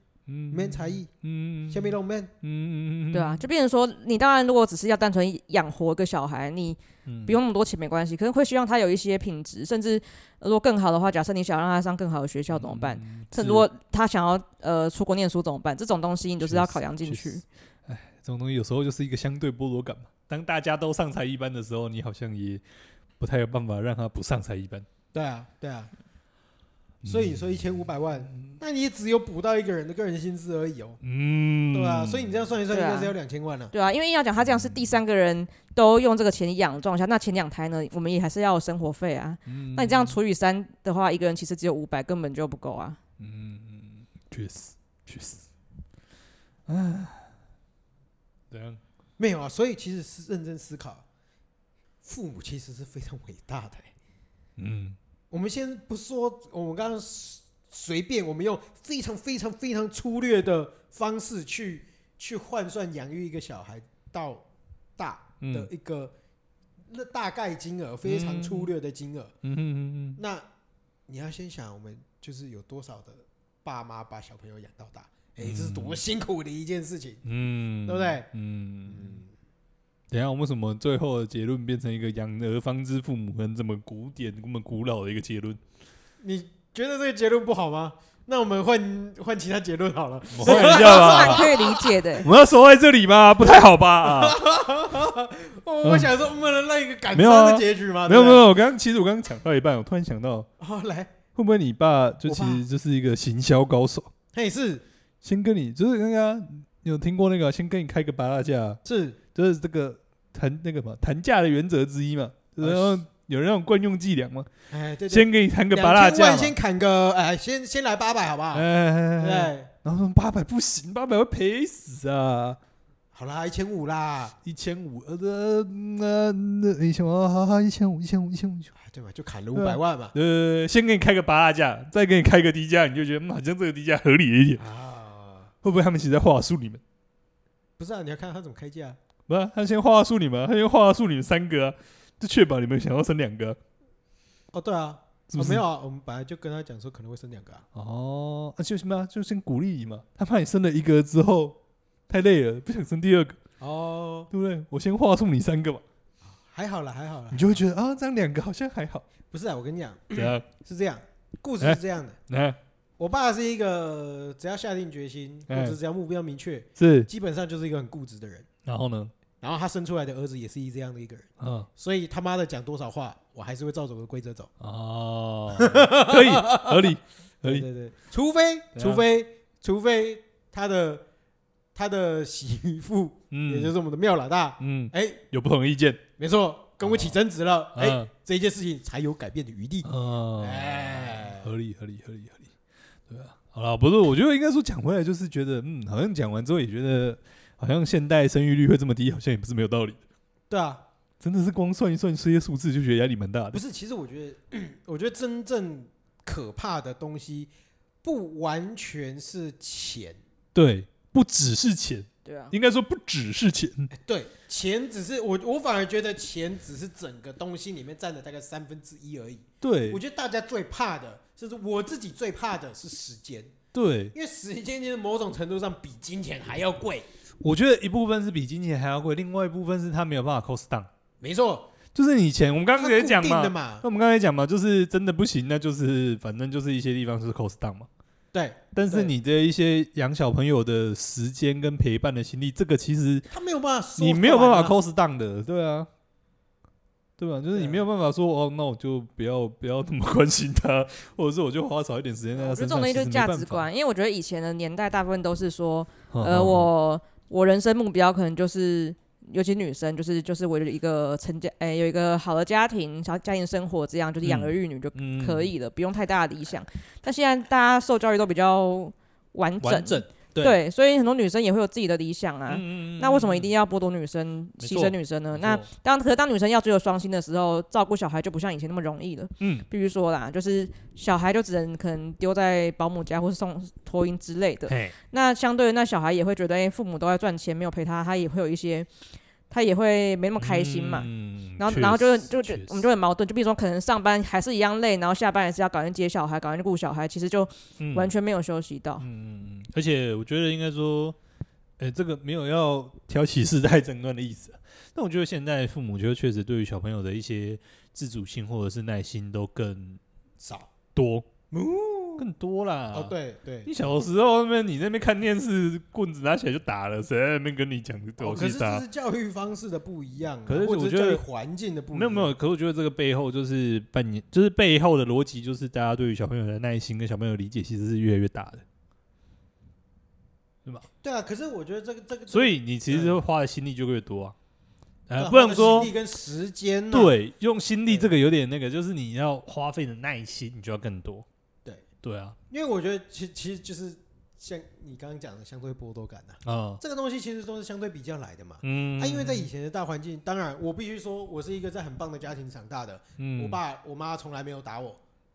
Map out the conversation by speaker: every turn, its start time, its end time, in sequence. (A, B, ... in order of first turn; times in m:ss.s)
0:00.3-0:03.5 A
0:00.5-0:01.1 B
0:01.7-0:02.3 B
0:03.1-0:17.4 C
0:07.1-0:07.4 A
0:12.5-0:13.7 A
0:16.4-0:22.6 A
0:23.2-0:24.9 A
0:25.1-0:25.9 B
0:27.0-0:28.6 A
0:27.0-0:31.0 B
0:31.0-0:32.5 A
0:31.7-0:33.7 B
0:32.7-0:33.2 C
0:33.7-0:43.0 C
0:34.4-0:35.0 A
0:39.5-0:40.2 A
0:43.2-0:45.5 A
0:46.7-0:47.3 A
0:48.5-0:48.8 A
0:49.2-0:51.0 B
0:52.0-0:53.9 B
0:54.6-0:55.0 A
0:55.3-1:04.4 B
1:05.0-1:06.1 B
1:05.4-1:05.7 A
1:06.9-1:09.3 B
1:08.0-1:08.7 A
1:09.4-1:10.2 A
1:10.2-1:10.4 B
1:11.1-1:17.2 B
1:15.4-1:16.0 A
1:17.2-1:19.2 A
1:17.8-1:18.3 B
1:18.9-1:19.3 B
1:20.1-1:25.6 A
1:26.2-1:32.0 B
1:30.3-1:31.6 A
1:30.4-1:32.3 C
1:32.2-1:34.4 A
1:34.0-1:38.4 B
1:35.8-1:36.1 A
1:37.1-1:40.5 A
1:40.6-1:41.2 B
1:41.4-1:44.1 A
1:42.2-1:42.6 B
1:44.3-1:44.8 B
1:45.2-1:48.8 A
1:48.8-1:49.2 B
1:49.3-1:54.5 A
1:52.6-1:53.0 B
1:54.7-1:59.7 B
1:55.1-1:56.6 A
1:58.5-2:02.6 A
2:03.1-2:04.4 B
2:04.4-2:08.7 A
2:08.8-2:10.1 B
2:09.5-2:14.6 A
2:14.6-2:15.5 B
2:15.6-2:16.8 A
2:17.8-2:19.0 B
2:19.3-2:23.6 A
2:24.5-2:27.6 B
2:25.3-2:25.6 A
2:27.7-2:31.6 A
2:32.1-2:33.4 A
2:33.6-2:34.3 B
2:34.3-2:35.8 A
2:36.3-2:37.6 B
2:37.3-2:39.0 A
2:39.3-2:42.2 B
2:40.1-2:40.5 A
2:41.6-2:42.6 A
2:43.0-2:48.5 B
2:45.5-2:45.8 A
2:46.8-2:47.1 A
2:48.7-2:49.1 A
2:49.4-2:54.5 B
2:51.4-2:51.7 A
2:54.6-2:57.7 A
2:55.6-3:01.0 B
2:58.8-2:59.0 A
3:01.8-3:05.2 B
3:03.3-3:03.7 A
3:04.6-3:06.0 A
3:06.2-3:11.5 B
3:06.8-3:07.2 A
3:07.8-3:08.1 A
3:09.8-3:12.5 A
3:13.1-3:20.0 A
3:20.5-3:20.8 B
3:21.2-3:23.6 A
3:23.5-3:27.5 B
3:28.0-3:30.2 B
3:30.5-3:33.9 A
3:32.2-3:32.5 C
3:33.9-3:43.5 B
3:39.6-3:40.0 A
3:43.7-3:44.1 A
3:44.1-3:47.1 B
3:47.4-3:50.9 A
3:51.2-3:51.7 B
3:51.9-3:57.9 A
3:52.8-3:53.8 B
3:58.3-3:59.1 B
3:58.8-4:03.3 A
4:03.3-4:04.8 B
4:04.0-4:05.9 A
4:07.2-4:13.7 A
4:07.5-4:07.8 B
4:12.4-4:48.9 C
4:16.1-4:16.7 A
4:24.2-4:25.5 A
4:29.6-4:30.6 A
4:32.5-4:33.5 A
4:34.6-4:35.7 A
4:39.4-4:39.7 A
4:44.7-4:45.0 A
4:49.5-4:59.0 C
4:50.4-4:52.8 A
4:57.8-4:58.1 A
4:59.0-5:01.2 A
5:01.8-5:10.0 A
5:10.4-5:10.7 B
5:10.9-5:11.4 A
5:11.5-5:12.3 B
5:12.2-5:13.1 A
5:12.9-5:13.7 B
5:13.6-5:18.8 A
5:18.2-5:22.3 B
5:20.5-5:21.2 A
5:21.9-5:28.6 A
5:31.0-5:33.2 B
5:32.3-5:34.4 A
5:35.1-5:35.9 A
5:35.2-5:37.1 B
5:36.9-5:41.3 A
5:42.0-5:42.4 A
5:42.5-5:55.0 B
5:46.4-5:46.8 A
5:48.6-5:49.5 A
5:53.2-5:53.6 A